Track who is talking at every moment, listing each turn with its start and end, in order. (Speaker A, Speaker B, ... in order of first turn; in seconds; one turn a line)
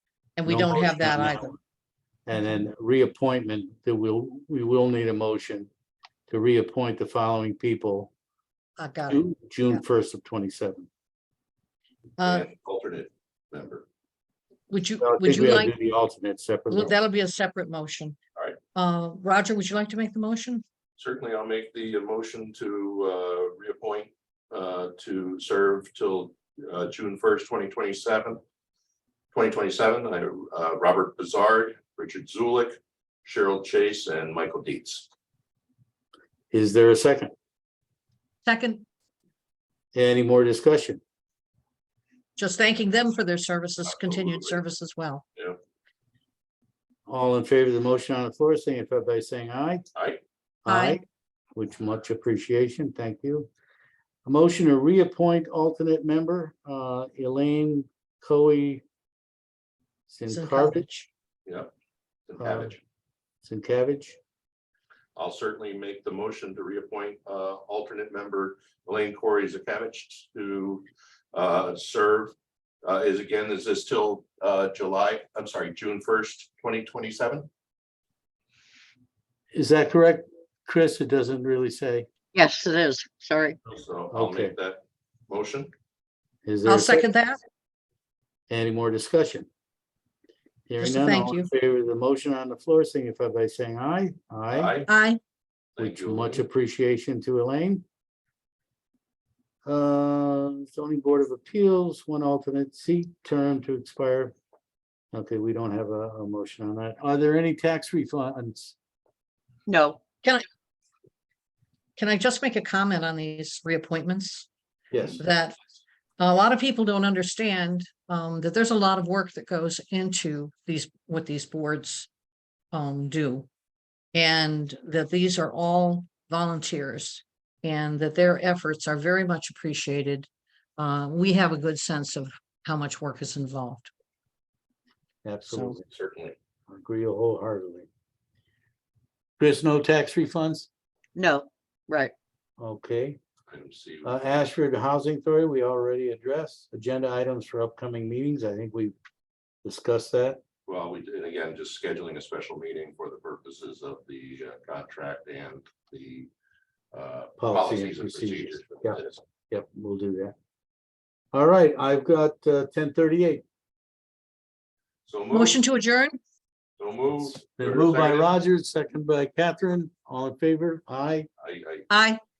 Speaker A: 0.4-1.5
Speaker B: 0.4-1.6
Speaker B: 2.2-5.7
Speaker B: 6.3-8.1
Speaker A: 8.8-9.8
Speaker B: 9.1-10.9
Speaker A: 12.2-12.5
Speaker C: 12.2-13.8
Speaker A: 14.7-15.7
Speaker B: 15.0-16.9
Speaker A: 16.7-18.2
Speaker A: 18.7-20.6
Speaker C: 21.0-28.4
Speaker C: 29.3-35.1
Speaker B: 36.5-37.3
Speaker A: 38.5-38.8
Speaker B: 39.9-41.0
Speaker A: 42.4-45.2
Speaker C: 43.9-44.6
Speaker B: 47.1-49.8
Speaker C: 49.9-50.2
Speaker B: 50.6-51.0
Speaker A: 50.7-51.0
Speaker B: 51.5-53.5
Speaker B: 54.2-58.8
Speaker B: 60.1-60.9
Speaker A: 60.3-61.1
Speaker C: 62.3-62.8
Speaker B: 62.4-62.7
Speaker B: 63.4-64.2
Speaker C: 65.2-77.5
Speaker B: 79.5-82.1
Speaker D: 82.3-83.6
Speaker C: 83.7-85.7
Speaker B: 84.1-84.5
Speaker B: 86.4-87.1
Speaker A: 86.7-87.4
Speaker B: 88.5-89.5
Speaker B: 90.7-94.8
Speaker A: 90.8-91.5
Speaker C: 94.5-94.9
Speaker A: 94.9-95.2
Speaker C: 95.8-96.4
Speaker B: 95.8-97.8
Speaker B: 99.6-104.3
Speaker B: 105.1-108.8
Speaker D: 109.7-110.0
Speaker A: 110.1-110.4
Speaker A: 112.0-114.5
Speaker B: 114.9-115.2
Speaker A: 115.2-115.5
Speaker A: 116.2-122.1
Speaker A: 122.7-123.5
Speaker A: 124.1-133.9
Speaker B: 135.2-135.8
Speaker A: 135.5-135.8
Speaker C: 135.9-136.3
Speaker B: 136.7-137.9
Speaker B: 139.4-140.7
Speaker D: 141.1-142.1
Speaker B: 142.6-143.2
Speaker C: 143.5-144.2
Speaker B: 144.0-148.9
Speaker B: 149.6-150.4
Speaker C: 150.7-156.3
Speaker C: 156.9-159.2
Speaker B: 157.4-160.3
Speaker B: 161.3-163.4
Speaker C: 165.1-165.6
Speaker A: 165.3-166.2
Speaker C: 166.8-168.4
Speaker B: 167.4-171.3
Speaker C: 171.4-171.9
Speaker A: 171.9-172.2